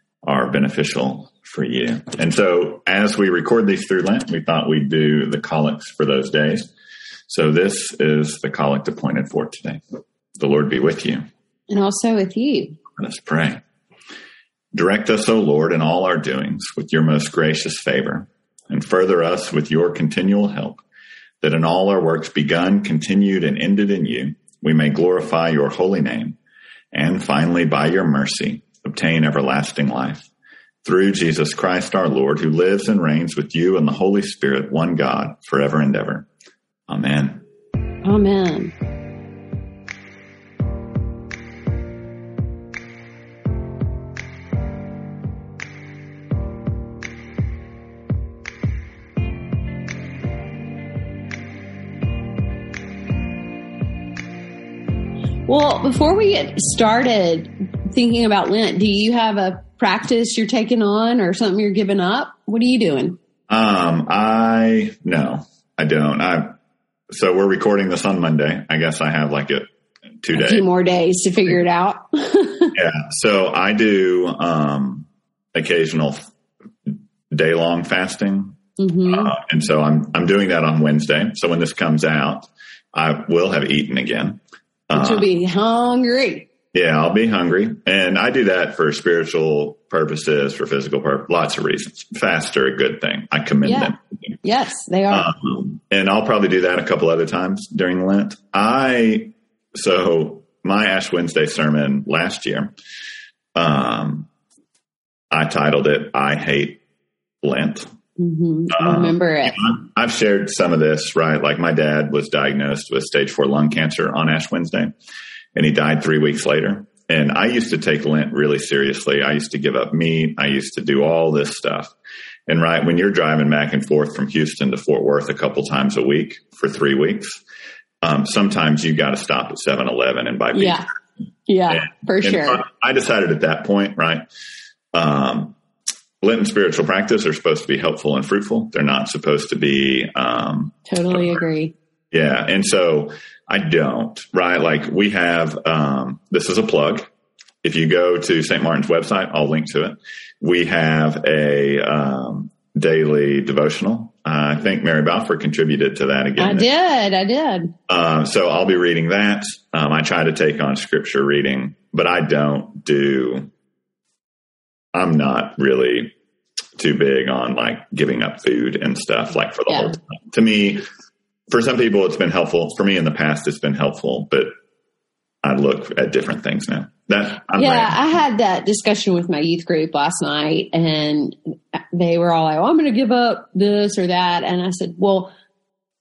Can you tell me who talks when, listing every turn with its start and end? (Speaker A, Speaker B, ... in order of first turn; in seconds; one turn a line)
Speaker A: 0.2-6.7
Speaker A: 7.3-9.8
Speaker A: 10.4-11.2
Speaker B: 11.7-12.8
Speaker A: 13.0-13.6
Speaker A: 14.7-20.8
Speaker A: 21.4-26.4
Speaker A: 26.9-30.3
Speaker A: 30.8-36.3
Speaker A: 36.9-37.4
Speaker B: 38.0-38.7
Speaker B: 55.5-63.2
Speaker A: 63.5-66.5
Speaker A: 67.1-69.7
Speaker A: 70.2-70.7
Speaker B: 70.3-72.7
Speaker A: 72.7-76.2
Speaker A: 76.9-85.2
Speaker B: 78.8-79.3
Speaker B: 84.9-86.5
Speaker A: 86.7-94.4
Speaker B: 93.6-95.3
Speaker A: 95.1-102.7
Speaker A: 103.5-104.3
Speaker A: 105.3-106.8
Speaker A: 107.4-107.9
Speaker B: 108.2-109.6
Speaker A: 108.7-114.9
Speaker A: 115.5-121.9
Speaker A: 122.5-127.4
Speaker A: 128.0-130.8
Speaker B: 130.5-130.8
Speaker B: 131.5-132.6
Speaker A: 131.7-134.2
Speaker A: 134.9-135.6
Speaker A: 136.2-141.4
Speaker B: 140.9-141.7
Speaker A: 142.1-147.1
Speaker A: 147.6-156.7
Speaker B: 156.4-157.7
Speaker A: 157.9-163.5
Speaker A: 164.9-166.1
Speaker A: 166.8-170.8
Speaker B: 169.7-169.9
Speaker A: 171.5-174.5
Speaker A: 175.4-178.1
Speaker B: 177.5-185.3